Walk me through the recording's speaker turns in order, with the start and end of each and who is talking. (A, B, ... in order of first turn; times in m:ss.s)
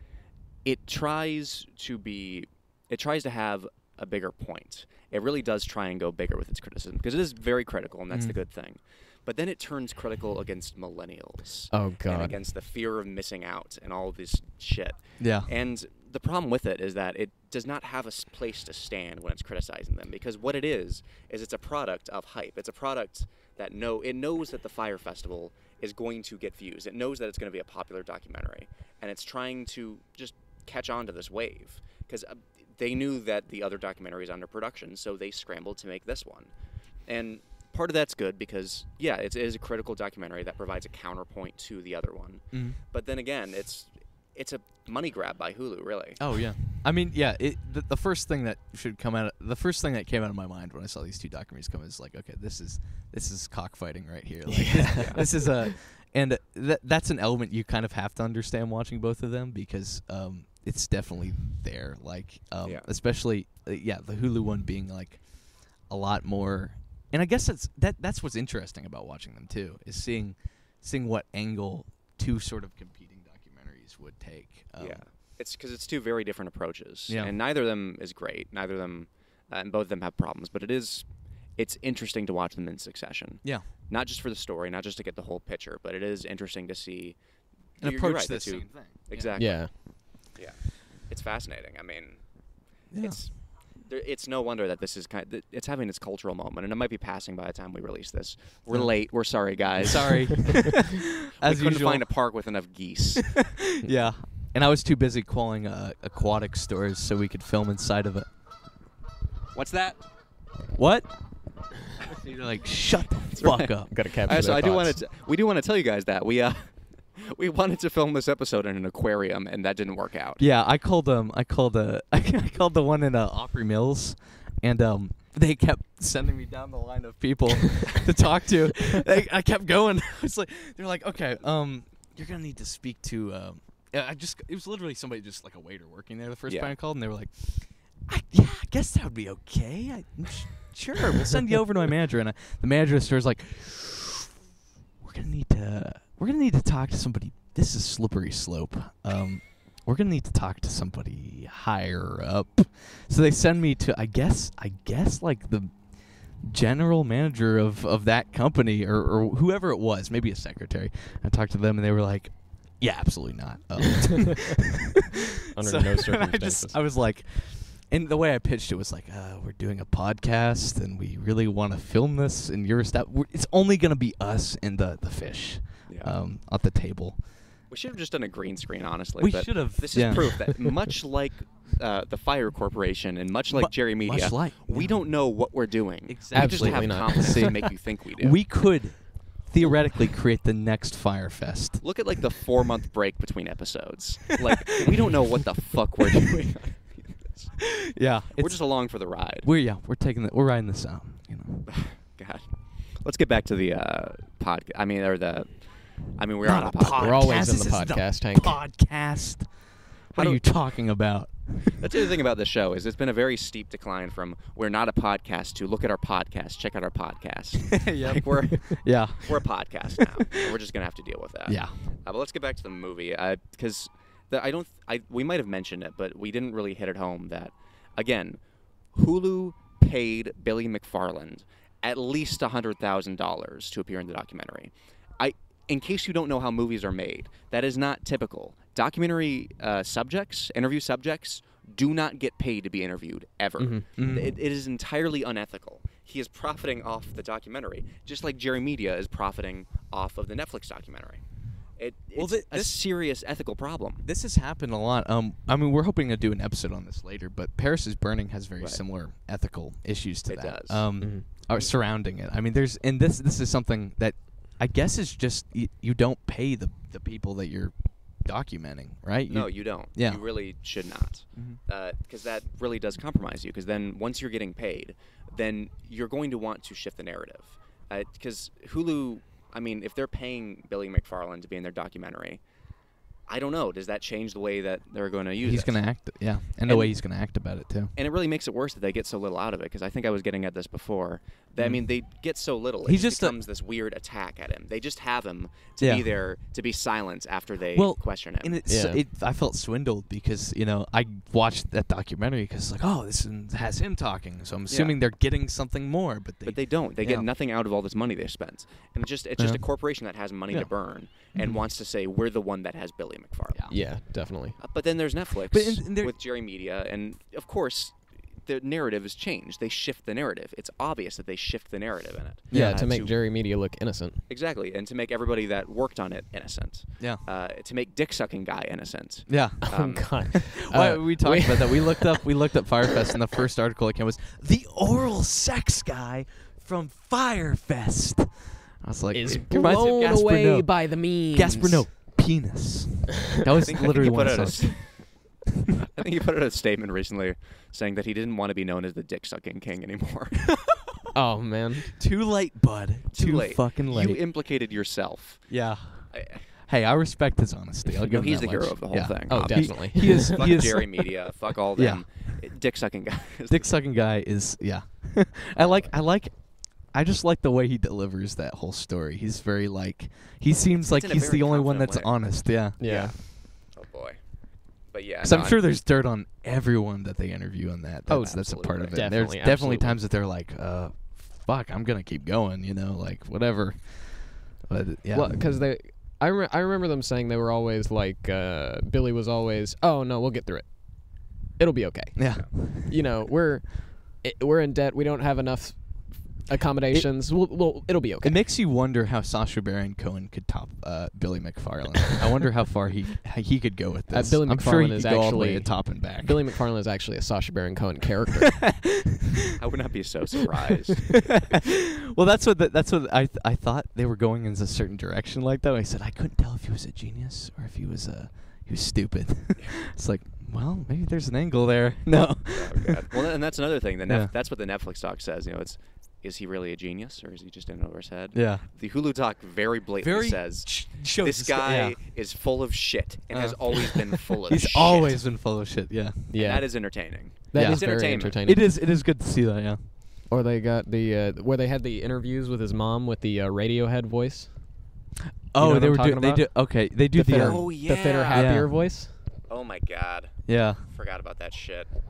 0:00.6-0:36.5 A
0:08.1-0:08.4 B
0:11.7-0:12.3 C
0:15.2-0:15.5 B
0:37.1-0:46.2 A
0:42.5-0:42.8 B
0:46.2-1:05.2 B
0:54.5-0:55.7 C
0:55.0-0:55.2 A
1:05.9-1:15.0 B
1:14.8-1:21.1 A
1:17.1-1:17.3 B
1:21.6-1:27.2 A
1:27.8-1:29.4 B
1:27.8-1:29.8 A
1:29.4-1:29.7 C
1:30.3-1:32.2 A
1:32.9-1:33.2 B
1:33.0-1:40.7 A
1:38.7-1:39.0 B
1:39.8-1:42.1 B
1:41.4-1:43.4 A
1:43.2-1:48.3 B
1:49.5-1:50.0 A
1:50.7-1:51.1 B
1:52.0-1:53.9 B
1:53.3-2:00.4 A
1:53.9-1:55.0 C
2:00.4-2:24.4 B
2:16.5-2:16.7 A
2:25.0-2:35.8 B
2:36.4-2:57.2 B
2:45.5-2:46.8 C
2:55.9-2:56.2 A
2:57.7-3:08.4 A
2:59.2-3:00.8 B
3:03.5-3:05.0 B
3:06.1-3:11.9 B
3:06.3-3:07.6 C
3:11.8-3:17.5 A
3:14.6-3:15.0 B
3:17.6-3:18.6 B
3:18.4-3:19.5 A
3:19.4-3:21.7 B
3:21.7-3:25.6 A
3:26.1-3:27.4 A
3:26.4-3:29.6 B
3:26.9-3:28.6 C
3:30.1-3:30.4 A
3:30.1-3:31.9 B
3:31.7-3:48.4 A
3:37.7-3:39.5 B
3:40.2-3:40.5 B
3:41.5-3:41.8 B
3:48.9-4:11.2 A
4:03.6-4:03.9 C
4:04.0-4:04.4 B
4:11.8-4:14.1 A
4:12.2-4:12.8 B
4:14.0-4:30.2 B
4:20.3-4:21.0 A
4:29.3-4:42.4 A
4:31.4-4:31.6 B
4:43.3-4:45.8 A
4:45.4-4:47.9 B
4:46.6-4:47.0 A
4:48.0-4:58.6 A
4:51.6-4:51.8 B
4:52.8-4:53.4 B
4:55.8-4:56.1 B
4:57.7-5:07.3 B
4:58.7-4:59.0 C
5:04.7-5:05.0 A
5:06.4-5:14.0 A
5:09.4-5:09.7 B
5:13.7-5:14.6 C
5:14.6-5:23.2 A
5:15.5-5:16.2 B
5:22.5-5:22.9 B
5:22.5-5:24.2 C
5:24.3-5:30.2 A
5:29.3-5:29.6 B
5:29.6-5:32.4 C
5:30.2-5:45.0 B
5:39.1-5:41.9 C
5:43.6-5:45.1 A
5:45.9-5:50.5 A
5:50.5-5:51.0 B
5:51.1-5:52.0 C
5:51.9-5:54.2 B
5:53.1-5:55.5 A
5:55.5-6:02.1 B
5:56.1-5:56.5 A
5:58.1-6:03.8 A
5:59.3-6:00.5 C
6:03.5-6:12.8 B
6:05.6-6:05.9 A
6:10.8-6:12.2 A
6:12.8-6:13.2 C
6:12.8-6:14.2 A
6:14.8-6:15.6 A
6:15.2-6:25.4 B
6:18.1-6:20.0 C
6:18.4-6:19.0 A
6:25.1-6:38.4 C
6:32.2-6:33.0 B
6:38.2-6:46.5 B
6:44.1-6:48.6 C
6:48.6-6:49.4 B
6:49.6-6:51.3 A
6:51.2-7:03.3 B
7:02.5-7:15.2 A
7:04.1-7:04.3 B
7:08.3-7:08.7 B
7:10.0-7:12.0 B
7:13.3-7:16.3 B
7:16.3-7:18.6 C
7:16.3-7:18.4 A
7:17.5-7:19.8 B
7:20.3-7:24.8 C
7:25.5-7:27.8 B
7:25.6-7:29.1 C
7:27.3-7:28.7 A
7:28.3-7:28.8 B
7:29.5-7:31.9 A
7:30.5-7:30.8 B